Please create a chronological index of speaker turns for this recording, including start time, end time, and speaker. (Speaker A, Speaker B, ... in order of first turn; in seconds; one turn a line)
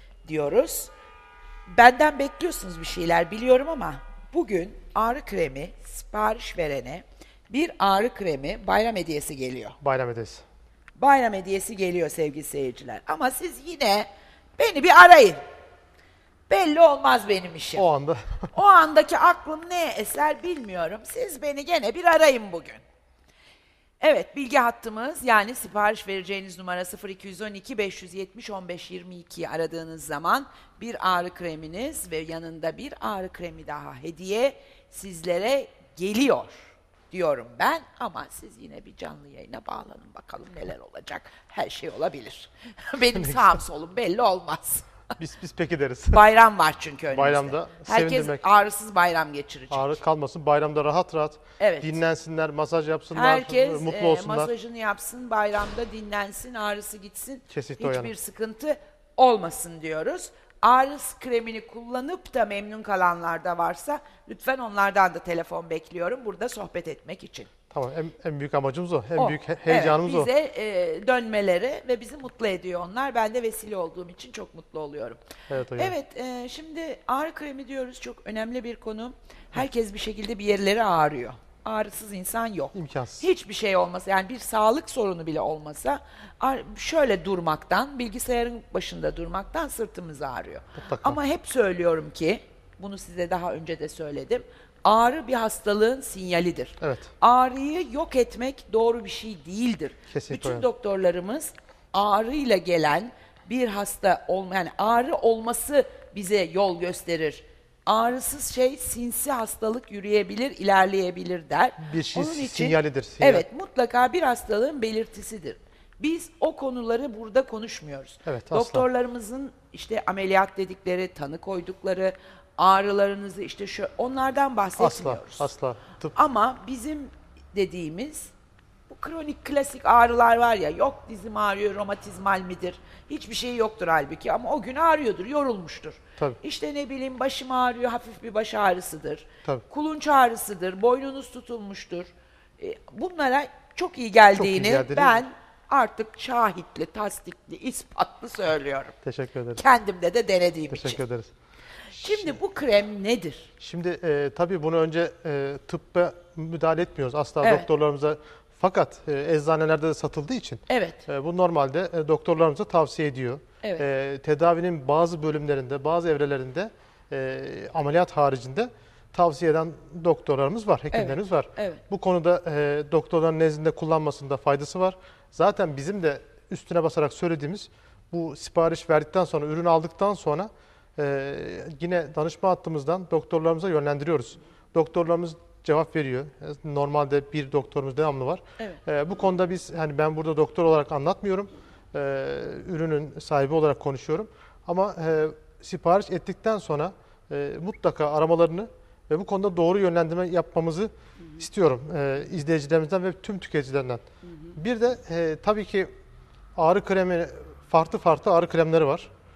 Speaker A: 0.2-0.9
Speaker A: 1.7-9.8
Speaker B: 9.8-10.4
Speaker A: 11.0-15.4
Speaker A: 16.5-17.9
Speaker B: 17.8-18.5
Speaker A: 18.5-22.8
Speaker A: 24.0-44.9
Speaker B: 43.2-43.5
Speaker B: 45.2-46.3
Speaker A: 46.1-50.0
Speaker B: 47.1-48.4
Speaker B: 49.7-54.5
Speaker A: 51.6-52.0
Speaker A: 53.1-67.5
Speaker B: 57.5-58.1
Speaker B: 67.7-70.3
Speaker A: 69.2-75.2
Speaker B: 75.5-76.0
Speaker A: 75.8-125.5
Speaker B: 82.7-83.3
Speaker B: 90.8-91.2
Speaker B: 96.8-97.1
Speaker B: 100.1-100.7
Speaker B: 111.8-113.5
Speaker B: 118.3-118.8
Speaker B: 124.8-126.1
Speaker A: 126.1-128.3
Speaker A: 128.9-148.9
Speaker B: 144.3-145.2
Speaker B: 149.0-149.6
Speaker A: 149.6-151.0
Speaker B: 150.7-151.3
Speaker A: 151.9-153.5
Speaker B: 151.9-152.4
Speaker B: 153.6-204.0
Speaker A: 160.7-161.0
Speaker A: 170.9-171.8
Speaker A: 204.2-204.6
Speaker B: 204.6-205.9
Speaker B: 206.6-209.1